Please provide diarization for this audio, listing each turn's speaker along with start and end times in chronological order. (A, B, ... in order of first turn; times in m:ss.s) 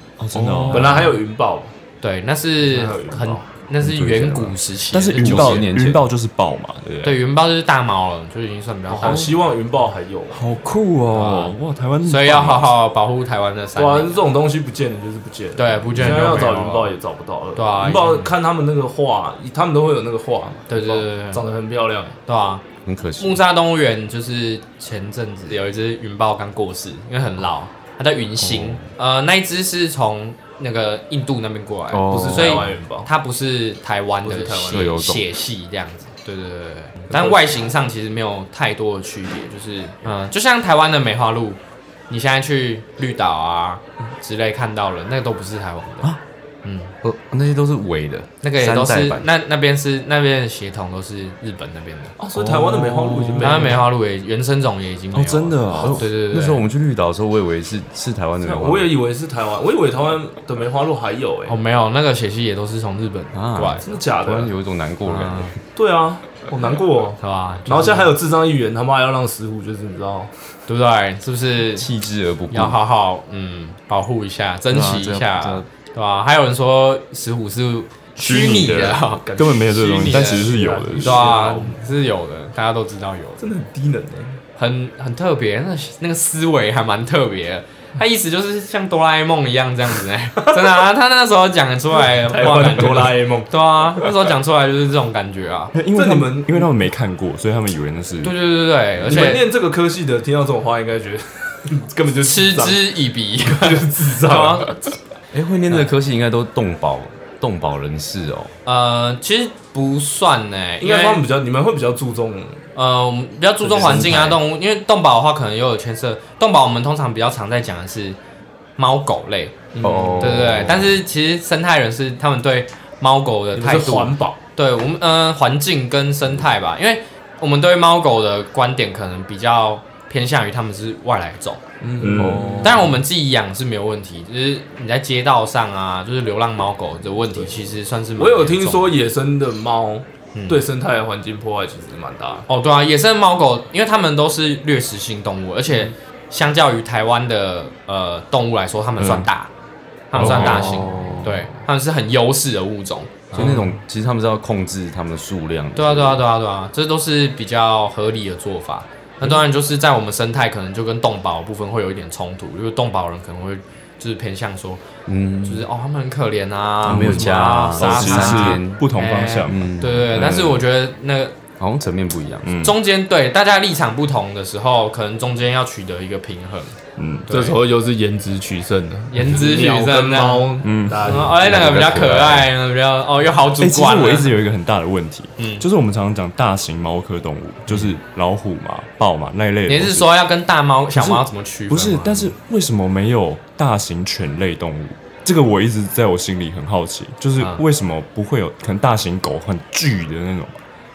0:00.2-0:01.1 A
0:00.3-0:01.1 B
0:00.7-0:01.7 C
0:02.0-0:05.7 D
0:02.6-0:03.4 C
0:03.8-0:04.6 B
0:04.9-0:07.2 A
0:05.2-0:06.1 B
0:07.0-0:09.3 D
0:08.9-0:10.4 C
0:09.0-0:09.3 A
0:10.3-0:12.7 A
0:11.1-0:14.2 D
0:13.8-0:22.2 C
0:15.6-0:16.9 D
0:16.1-0:16.4 B
0:17.6-0:18.3 D
0:20.7-0:21.4 D
0:22.3-0:22.6 D
0:22.8-0:23.4 B
0:23.2-0:41.6 D
0:28.4-0:28.8 B
0:31.9-0:32.7 B
0:32.1-0:33.1 C
0:34.2-0:35.0 C
0:34.7-0:35.3 B
0:37.1-0:37.6 C
0:42.1-0:46.1 D
0:46.6-0:46.9 D
0:47.0-0:49.3 B
0:48.4-0:52.1 D
0:52.2-0:53.9 C
0:52.4-0:53.8 A
0:53.4-0:56.6 D
0:55.1-0:56.0 A
0:55.8-0:58.9 B
0:58.4-1:01.6 C
1:01.5-1:03.8 D
1:03.3-1:05.6 B
1:03.8-1:04.5 C
1:05.1-1:05.5 D
1:05.8-1:10.3 C
1:07.2-1:08.1 D
1:10.7-1:11.9 D
1:11.7-1:12.8 B
1:12.5-1:19.2 D
1:14.7-1:15.7 B
1:18.2-1:21.3 A
1:19.1-1:21.8 C
1:19.8-1:23.4 D
1:23.4-1:24.4 C
1:24.6-1:35.7 D
1:32.1-1:34.1 C
1:35.7-1:38.4 A
1:35.9-1:36.7 C
1:38.2-1:39.5 D
1:39.0-1:44.7 C
1:42.2-1:44.9 D
1:45.3-1:48.5 B
1:48.6-1:51.2 D
1:50.8-1:52.6 C
1:52.8-1:58.2 D
1:53.6-1:54.4 B
1:58.8-2:11.6 D
1:59.7-2:00.6 C
1:59.8-2:01.0 B
2:03.5-2:04.4 C
2:11.8-2:12.7 C
2:12.0-2:12.7 A
2:12.2-2:12.9 B
2:12.6-2:18.9 D
2:18.2-2:22.4 C
2:20.4-2:20.6 D
2:22.5-2:29.5 D
2:29.0-2:29.3 A
2:30.1-2:33.7 D
2:30.2-2:31.2 A
2:30.2-2:31.4 B
2:33.3-2:36.2 B
2:35.8-2:44.8 D
2:45.1-2:45.7 B
2:45.4-2:51.4 D
2:46.8-2:48.9 B
2:46.8-2:50.7 A
2:49.4-2:50.2 B
2:51.6-2:52.5 B
2:52.4-2:52.8 A
2:52.6-2:57.6 D
2:57.0-2:57.3 A
2:57.3-3:01.8 C
2:59.1-3:00.5 D
3:00.6-3:01.3 A
3:01.0-3:04.4 D
3:01.2-3:02.5 B
3:03.6-3:10.1 A
3:05.4-3:05.6 D
3:09.7-3:12.4 D
3:10.9-3:20.6 A
3:17.4-3:17.6 D